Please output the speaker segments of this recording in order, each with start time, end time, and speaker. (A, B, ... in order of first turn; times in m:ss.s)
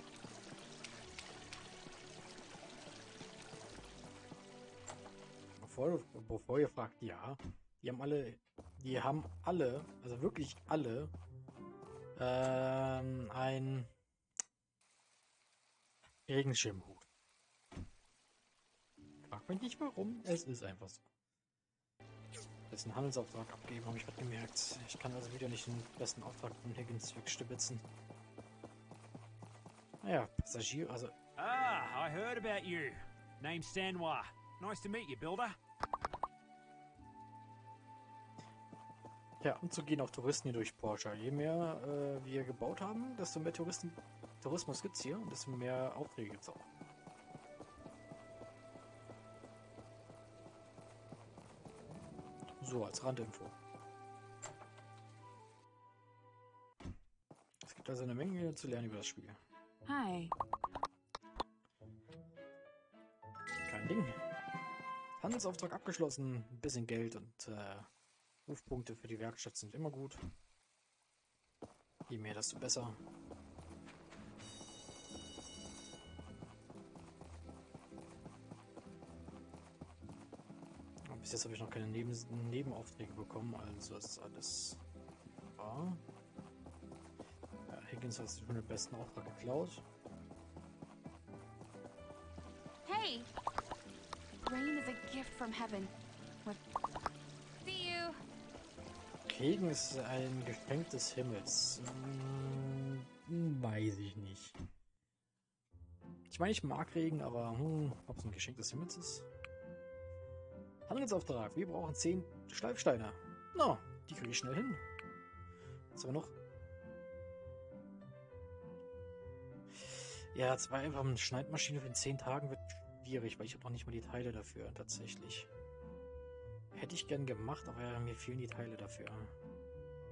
0:05.6-0:11.1 A
0:12.2-0:13.9 A
0:16.3-0:17.1 A
0:19.3-0:21.1 A
0:22.7-0:27.8 A
0:30.0-0:31.1 A
0:31.4-0:35.6 B
0:39.4-0:46.7 A
0:52.6-0:53.6 A
0:57.6-0:59.4 A
0:59.8-1:00.3 C
1:03.6-1:04.2 A
1:05.2-1:07.9 A
1:08.5-1:10.2 A
1:12.1-1:13.0 A
1:21.1-1:24.8 A
1:25.4-1:26.0 A
1:27.7-1:29.8 A
1:32.8-1:33.3 C
1:34.4-1:36.6 C
1:37.6-1:38.2 C
1:39.2-1:44.6 A
1:46.3-1:49.3 A
1:50.9-1:54.8 A
1:56.0-1:56.3 A
1:59.8-2:05.5 A
2:06.7-2:09.3 A